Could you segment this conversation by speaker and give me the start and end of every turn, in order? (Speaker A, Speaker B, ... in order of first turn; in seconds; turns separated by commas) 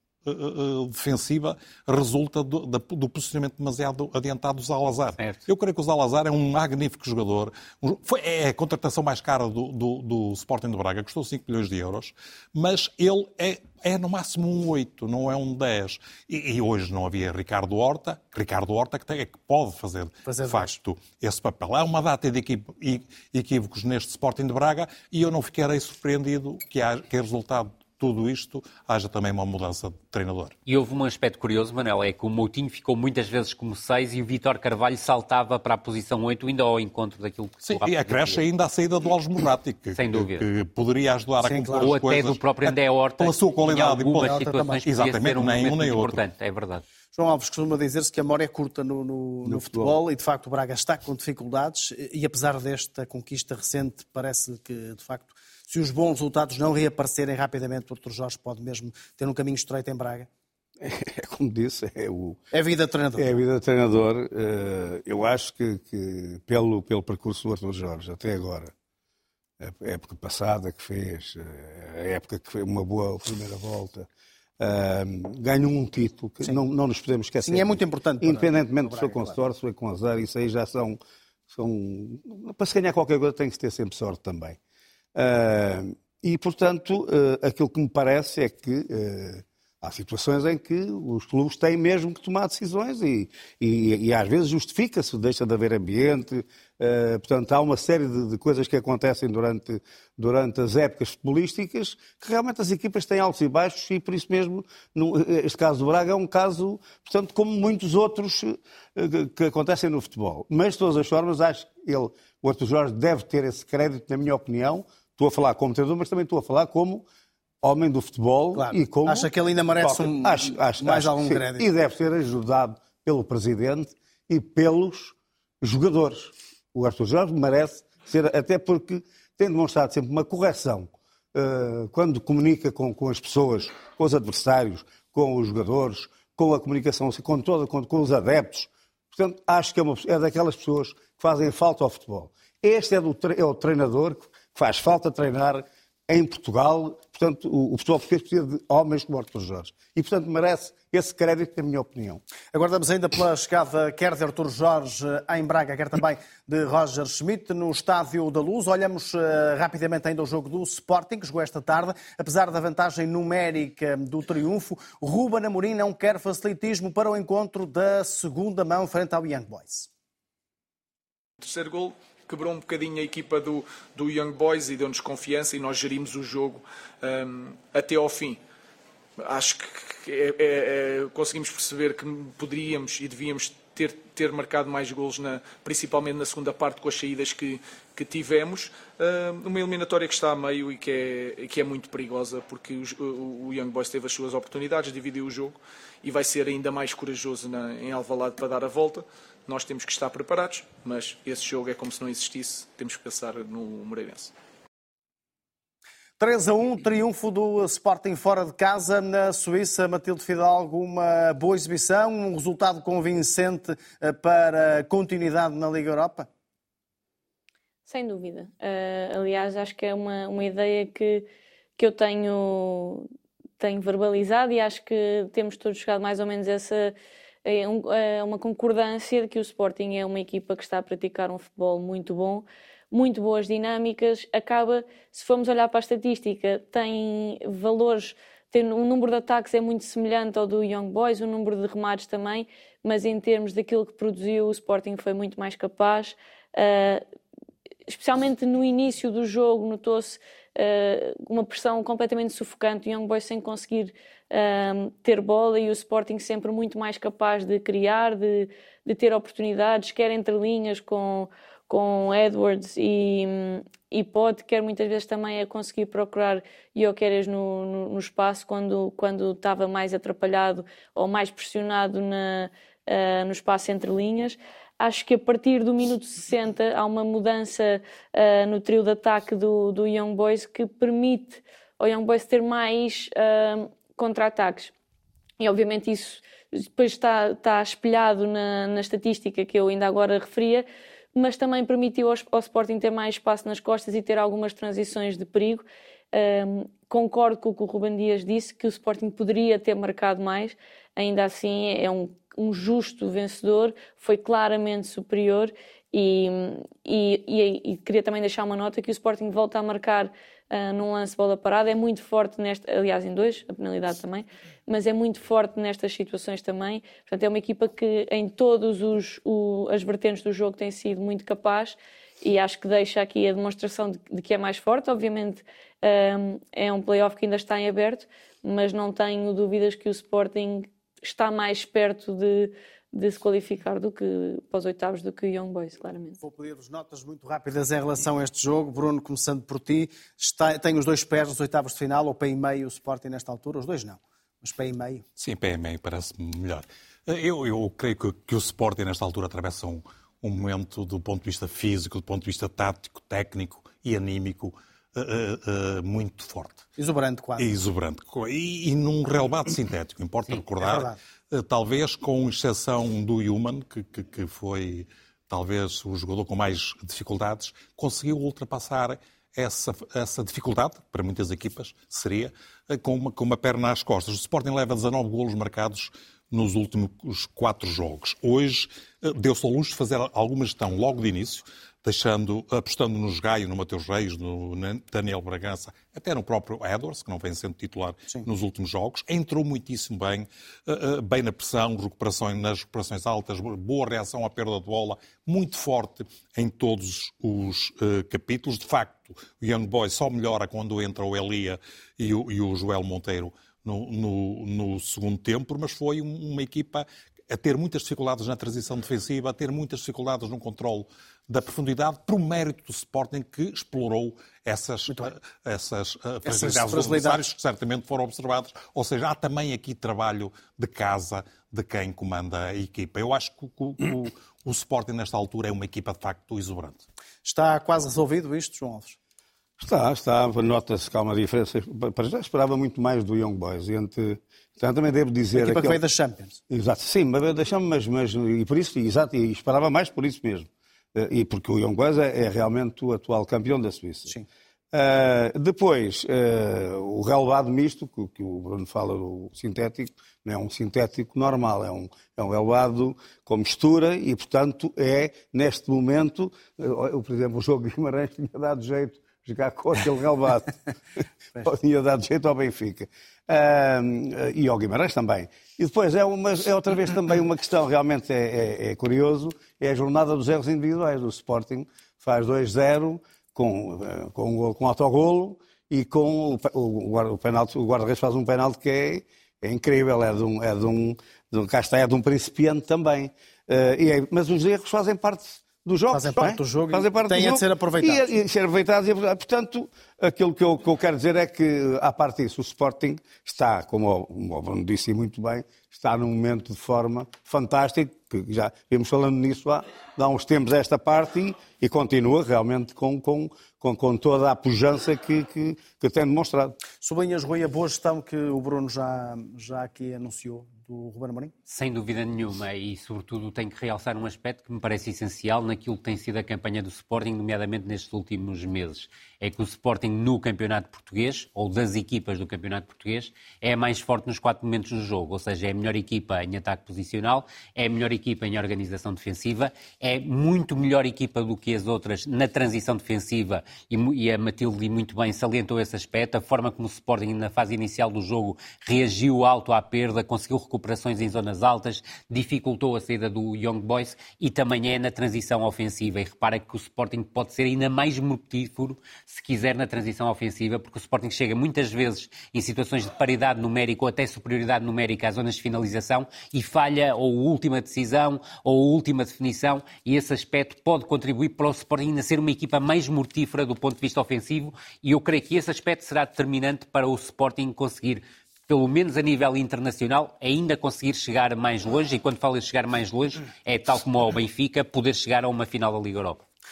Speaker A: 0.2-30.6, Speaker B: 20.2-20.8, Speaker C: 30.6-38.4, Speaker A: 37.6-46.2, Speaker C: 40.0-40.5, Speaker B: 41.4-41.9, Speaker C: 41.8-46.8, Speaker B: 43.8-44.8, Speaker B: 47.1-60.3, Speaker D: 49.4-50.0, Speaker D: 60.8-62.4, Speaker B: 62.5-63.3, Speaker D: 63.2-68.7, Speaker D: 69.6-74.1, Speaker D: 74.6-81.0, Speaker B: 77.4-79.4, Speaker D: 81.5-84.6, Speaker D: 85.1-117.0, Speaker D: 117.6-152.2, Speaker B: 118.5-121.7, Speaker B: 152.5-169.9, Speaker E: 171.4-178.4, Speaker E: 179.2-204.3, Speaker B: 206.2-216.3, Speaker F: 217.9-221.2, Speaker F: 221.8-223.1, Speaker F: 223.6-247.0, Speaker F: 247.9-284.7, Speaker F: 285.4-336.2, Speaker B: 336.2-345.0, Speaker A: 345.2-356.6, Speaker B: 356.8-357.6, Speaker A: 357.4-426.8, Speaker B: 360.6-360.9, Speaker B: 416.2-417.2, Speaker B: 427.2-429.0, Speaker D: 429.6-435.8, Speaker B: 435.3-436.4, Speaker D: 436.5-444.1, Speaker D: 444.7-460.6, Speaker D: 461.4-506.6, Speaker B: 485.9-488.1, Speaker B: 506.8-511.3, Speaker C: 511.5-576.2